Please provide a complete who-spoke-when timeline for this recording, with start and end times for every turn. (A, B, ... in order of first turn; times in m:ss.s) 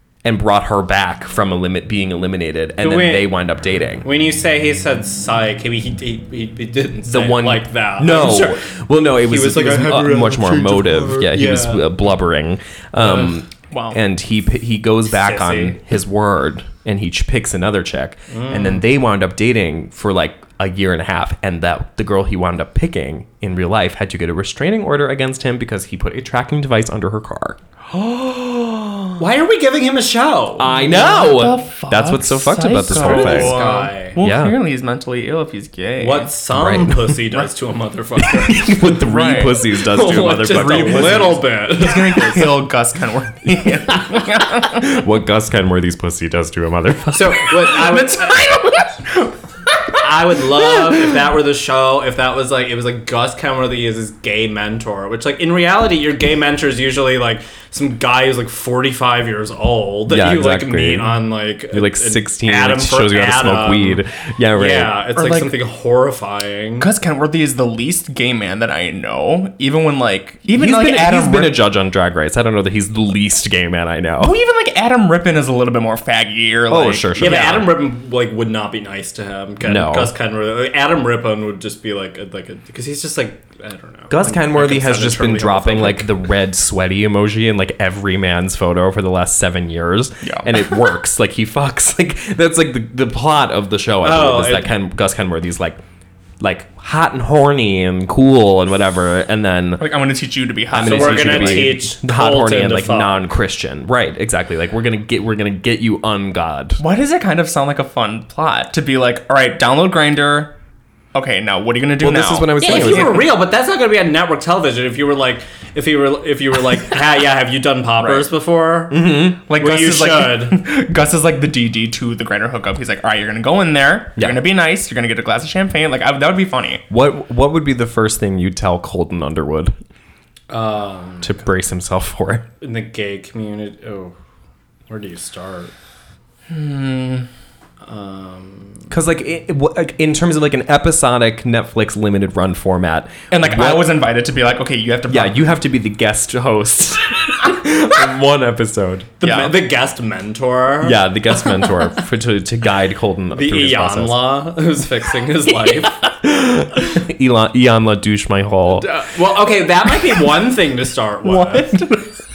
0:00.2-0:04.1 A
0:02.8-0:03.3 B
0:04.0-0:08.6 B
0:07.0-0:27.6 A
0:09.2-0:11.9 B
0:13.7-0:14.0 C
0:15.1-0:15.8 B
0:18.3-0:18.8 B
0:27.9-0:29.1 C
0:29.2-0:30.8 B
0:30.6-0:33.6 A
0:30.7-0:36.3 C
0:32.9-0:34.2 B
0:34.2-0:34.6 A
0:36.0-0:38.8 B
0:36.5-0:37.1 A
0:38.2-0:41.4 A
0:38.8-0:39.6 C
0:39.7-0:42.6 B
0:40.5-0:44.9 C
0:43.9-0:47.7 A
0:47.1-0:48.5 B
0:47.6-0:49.3 C
0:50.0-1:04.0 B
1:00.1-1:05.0 A
1:04.5-1:06.9 B
1:05.2-1:05.6 C
1:06.8-1:11.6 C
1:10.5-1:14.4 A
1:14.2-1:17.6 C
1:16.7-1:17.7 A
1:17.2-1:26.1 B
1:19.6-1:20.1 A
1:24.1-1:35.8 A
1:30.2-1:30.5 C
1:34.0-1:34.7 B
1:36.4-1:39.9 A
1:39.8-1:41.8 C
1:40.7-1:46.8 A
1:40.8-1:43.2 B
1:46.8-1:50.5 C
1:51.1-1:53.2 C
1:52.0-1:53.3 A
1:52.6-2:00.6 B
1:58.9-1:59.4 A
1:59.5-2:06.8 C
2:04.2-2:04.4 A
2:06.9-2:09.7 A
2:10.5-2:11.4 B
2:11.2-2:12.5 A
2:12.6-2:14.1 B
2:14.9-2:15.7 B
2:16.5-2:17.3 C
2:17.8-2:18.9 B
2:18.9-2:23.9 A
2:23.3-2:25.6 C
2:25.1-2:29.1 A
2:29.2-2:32.0 B
2:29.2-2:29.5 C
2:30.8-2:34.3 A
2:33.3-2:36.0 B
2:35.9-2:38.9 A
2:38.7-2:41.8 B
2:41.2-2:42.0 C